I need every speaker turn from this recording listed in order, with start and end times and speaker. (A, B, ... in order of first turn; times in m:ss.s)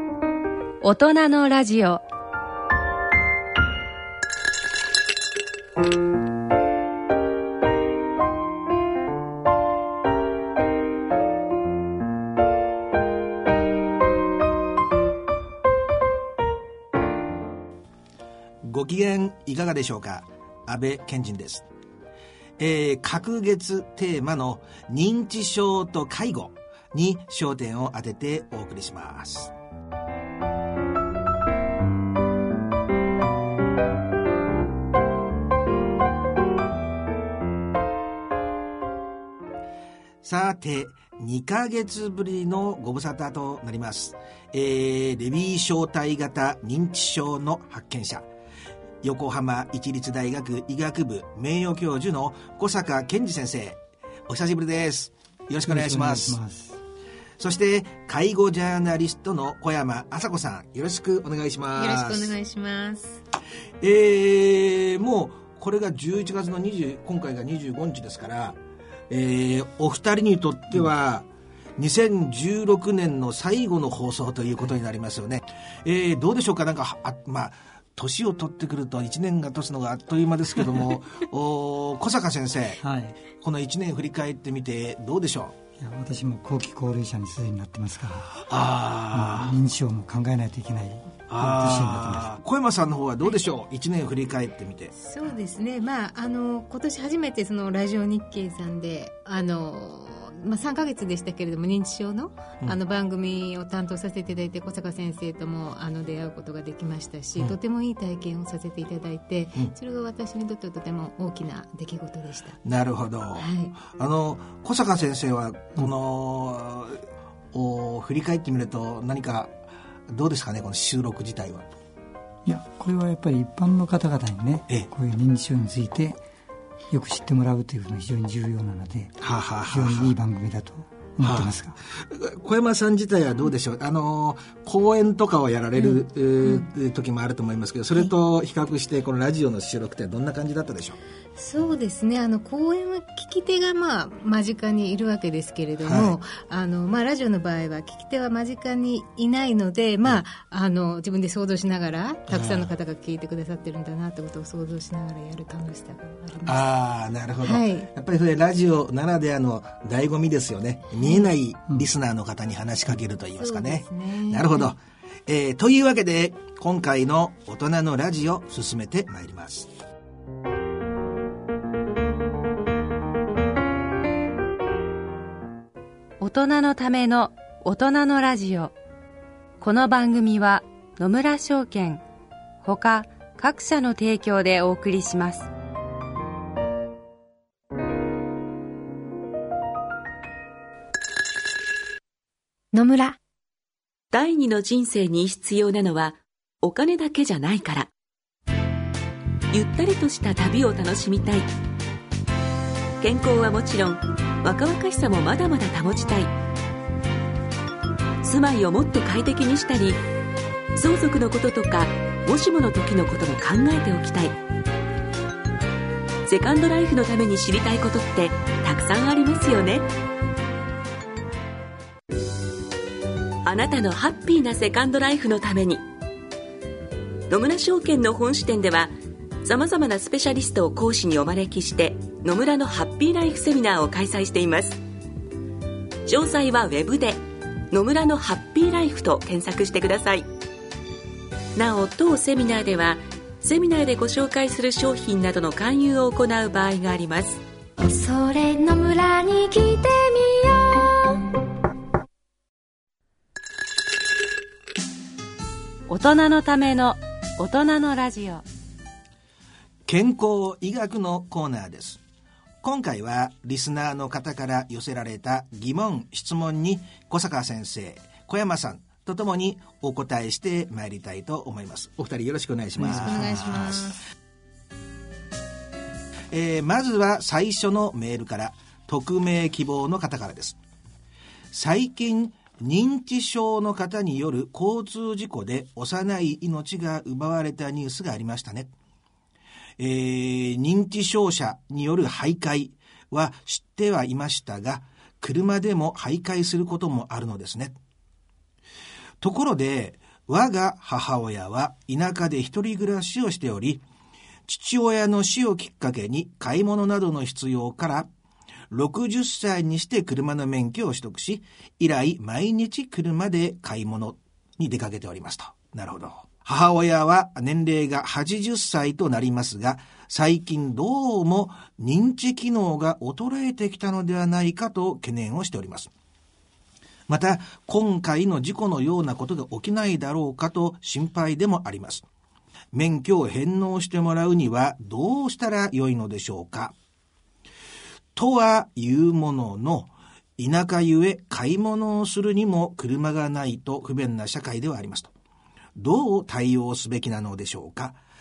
0:00.8-0:02.0 A
0:18.6-0:21.6 B
0:22.6-0:29.5 B
0:40.2-0:48.3 B
0:49.0-0:56.4 B
0:55.6-0:56.8 C
0:57.4-1:02.3 B
1:01.8-1:03.2 D
1:03.8-1:08.6 B
1:09.1-1:22.8 B
1:22.8-1:23.2 C
1:23.4-1:25.5 B
1:25.8-1:28.3 C
1:28.4-1:29.5 B
1:29.1-1:32.4 C
1:31.3-1:34.9 B
1:35.0-1:52.6 D
1:52.6-1:57.0 B
1:53.4-1:53.7 D
1:57.5-1:59.5 B
2:00.1-2:01.7 B
2:02.4-2:06.2 C
2:06.9-2:09.1 C
2:09.2-2:10.1 B
2:09.6-2:11.8 C
2:11.2-2:21.0 B
2:15.8-2:16.7 D
2:21.4-2:36.7 D
2:25.8-2:26.2 B
2:32.3-2:32.7 B
2:36.4-2:49.7 B
2:37.4-2:37.9 D
2:41.0-2:41.3 D
2:43.4-2:44.7 D
2:56.2-2:58.7 A
2:59.6-3:02.0 A
3:02.6-3:05.5 A
3:12.7-3:13.2 E
3:14.1-3:17.9 F
3:19.5-3:21.5 F
3:23.0-3:26.3 F
3:28.2-3:30.0 F
3:30.7-3:34.4 F
3:36.2-3:39.9 F
3:43.4-3:45.8 F
3:47.3-3:48.9 F
3:49.4-3:54.8 F
3:56.0-3:57.2 F
3:57.7-4:00.3 F
4:01.6-4:07.4 F
4:07.8-4:11.3 E
4:15.9-4:18.4 A
4:19.8-4:22.0 B
4:22.6-4:33.8 B
4:32.8-4:33.7 C
4:33.0-4:34.0 D
4:36.3-4:40.6 B
4:41.5-4:48.7 B
4:49.8-4:57.8 B
4:59.2-5:03.8 B
5:04.5-5:08.1 B
5:08.7-5:25.9 B
5:27.1-5:32.0 B
5:32.7-5:36.7 B
5:38.1-5:45.1 B
5:45.8-5:48.0 B